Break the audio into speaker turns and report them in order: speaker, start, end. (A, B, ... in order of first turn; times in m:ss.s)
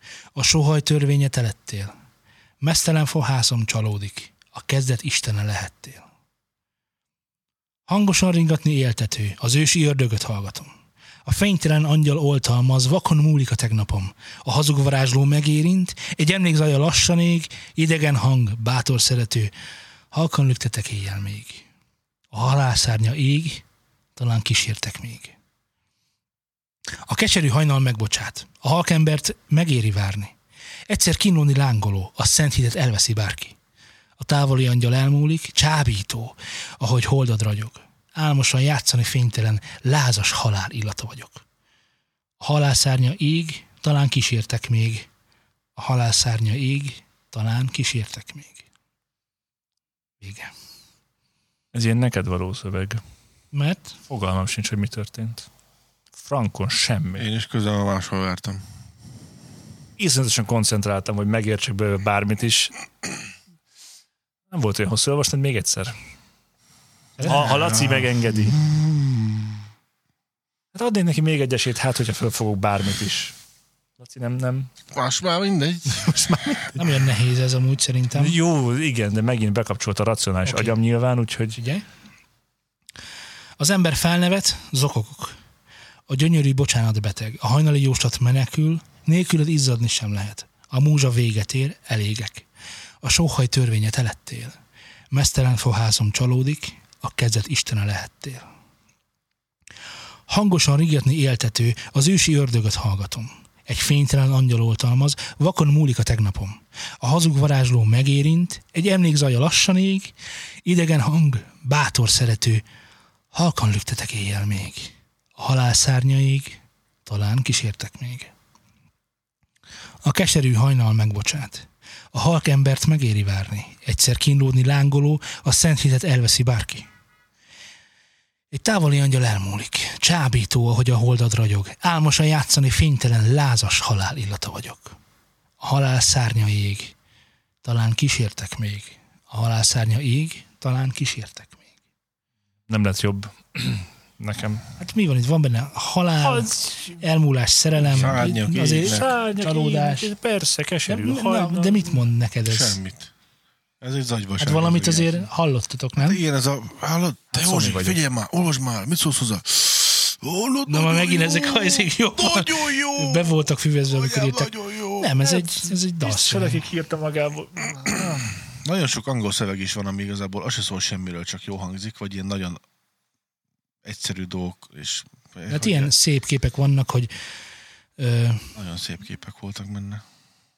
0:00.3-0:01.9 A
0:02.6-0:06.0 A
0:07.9-0:10.7 A
0:11.2-0:19.5 A
0:20.1-0:21.7 A
0:22.3-0:23.6 A
0:24.2-0:25.3 A
0:27.0-0:30.3 A
0:30.9-0:33.6 A
0:34.2-0:41.4 A
0:42.4-0:45.1 A
0:45.8-0:48.6 A
0:50.2-0:50.5 A
0:51.7-0:53.0 B
0:53.5-0:54.0 A
0:54.1-0:55.5 B
0:56.2-0:57.3 B
0:57.2-0:58.6 C
1:00.0-1:02.7 B
1:04.5-1:05.9 B
1:07.2-1:07.9 A
1:07.2-1:08.6 B
1:07.5-1:09.6 C
1:10.7-1:13.4 B
1:14.0-1:14.7 B
1:14.9-1:16.4 C
1:15.9-1:16.8 B
1:16.7-1:18.4 A
1:18.1-1:21.6 B
1:20.4-1:20.7 A
1:21.6-1:21.8 A
1:23.6-1:25.4 A
1:26.1-1:32.5 A
1:33.0-1:34.6 A
1:35.1-1:38.4 A
1:40.3-1:50.1 A
1:50.6-1:52.6 A
1:53.3-1:58.3 A
2:00.0-2:06.9 A
2:08.5-2:15.0 A
2:15.6-2:16.9 A
2:17.6-2:21.6 A
2:22.7-2:24.6 B
2:24.8-2:30.1 A
2:26.2-2:27.0 B
2:27.8-2:29.0 C
2:27.9-2:31.9 B
2:30.9-2:32.8 A
2:32.4-2:33.1 C
2:33.8-2:35.3 C
2:34.4-2:36.2 A
2:36.0-2:45.2 C
2:37.3-2:38.0 B
2:40.7-2:46.6 A
2:45.2-2:48.3 B
2:48.6-2:52.6 C
2:53.8-2:55.9 C
2:55.5-2:57.1 A
2:58.0-2:58.5 A
2:58.5-3:00.0 C